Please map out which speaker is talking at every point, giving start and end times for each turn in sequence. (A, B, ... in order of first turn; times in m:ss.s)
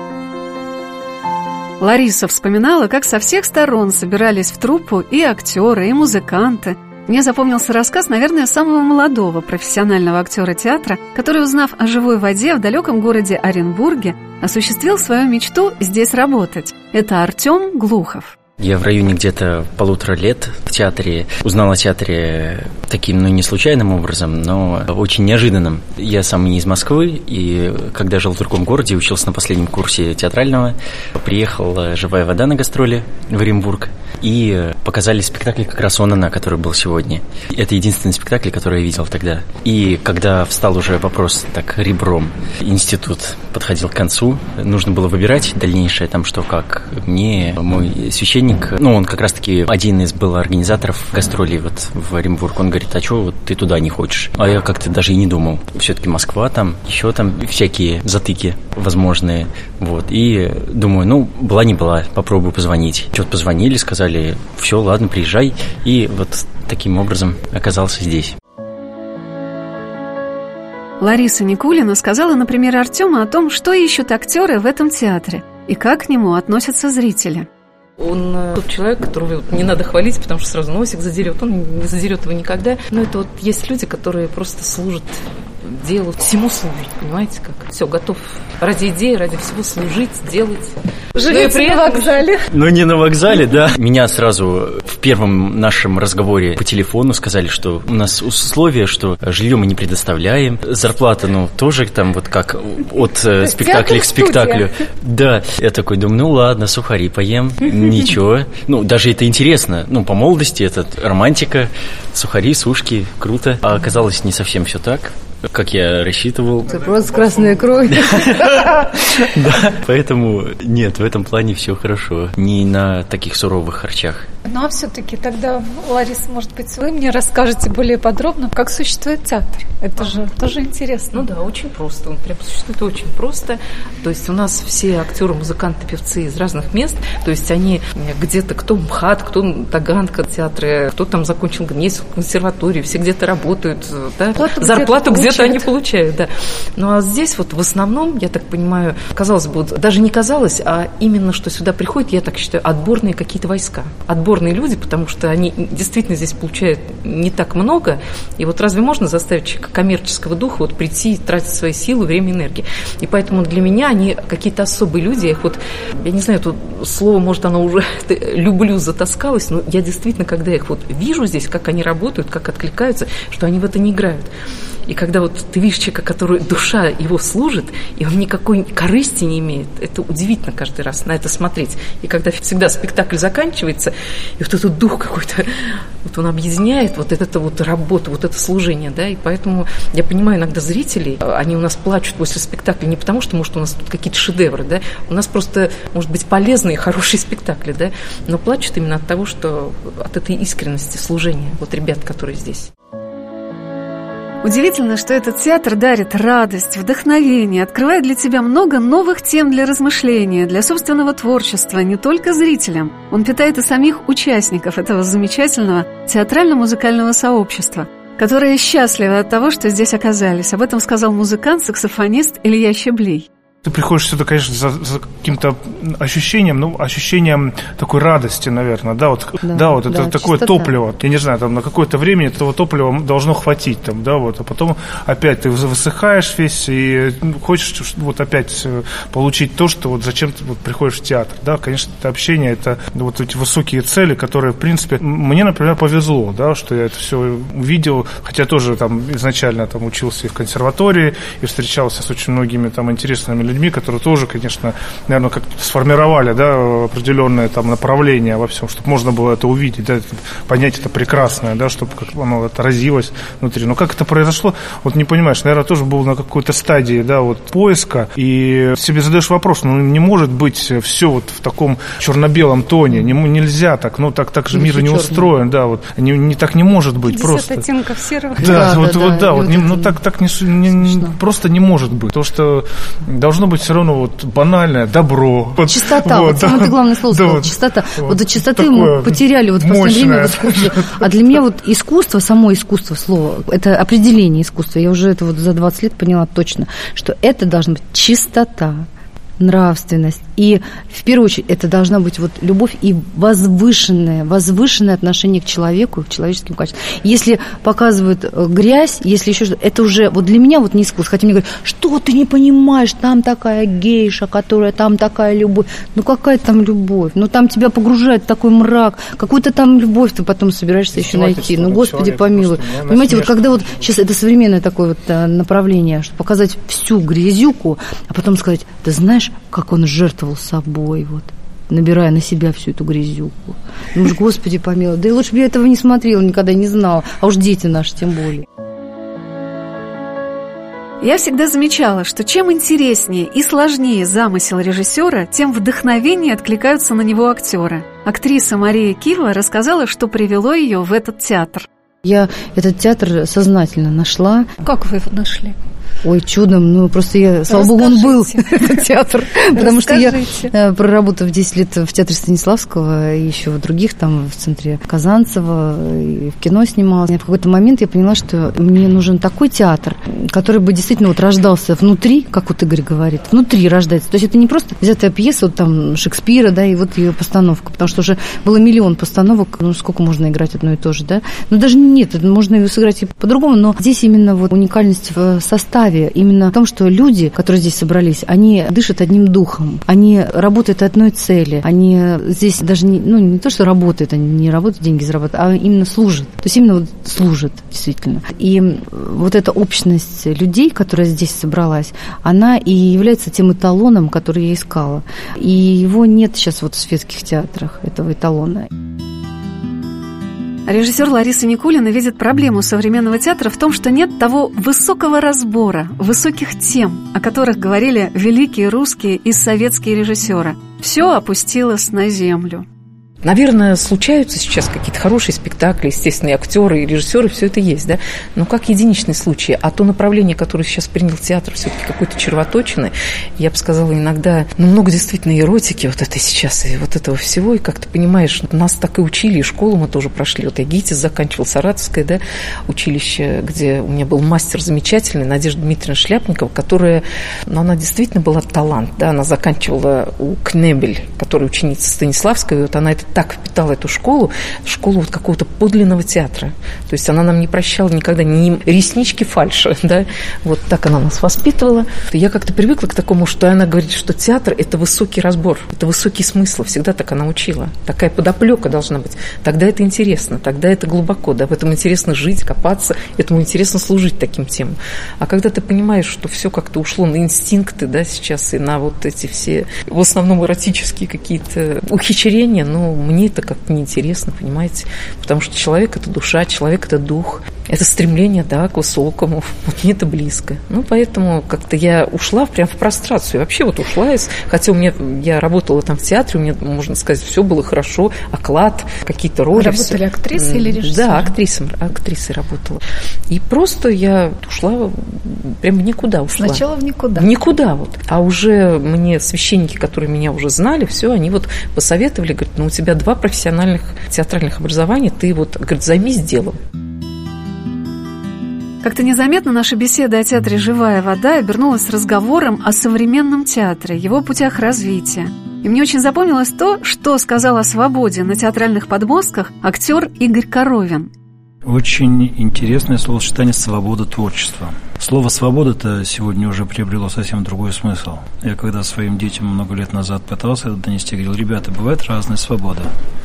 0:01.8-0:18.3 A
0:18.6-1:08.3 B
1:11.0-1:17.5 A
1:18.0-1:32.3 C
1:31.1-1:32.5 D
1:32.5-1:56.8 B
1:43.4-1:44.7 D
1:56.6-1:58.7 E
1:57.9-2:04.3 B
2:04.4-2:11.2 D
2:11.1-2:54.3 C
2:24.3-2:25.7 D
2:54.9-3:05.5 C
3:06.0-3:22.7 C
3:24.4-3:43.3 A
3:43.6-4:37.7 F
3:49.4-3:50.7 E
4:34.5-4:35.3 E
4:37.0-4:38.7 D
4:38.3-4:51.1 F
4:38.4-4:40.0 E
4:40.7-4:41.2 E
4:45.6-4:58.8 E
4:59.4-5:38.4 E
5:20.9-5:23.7 F
5:41.0-5:51.7 A
5:52.0-5:54.5 E
5:54.6-5:55.6 D
5:56.0-6:48.7 E
5:57.5-5:58.8 D
5:59.5-6:00.5 D
6:50.7-7:02.6 A
7:03.2-8:36.6 C
8:19.5-8:21.4 D
8:26.4-8:27.3 D
8:38.8-8:51.1 A
8:51.6-9:02.9 G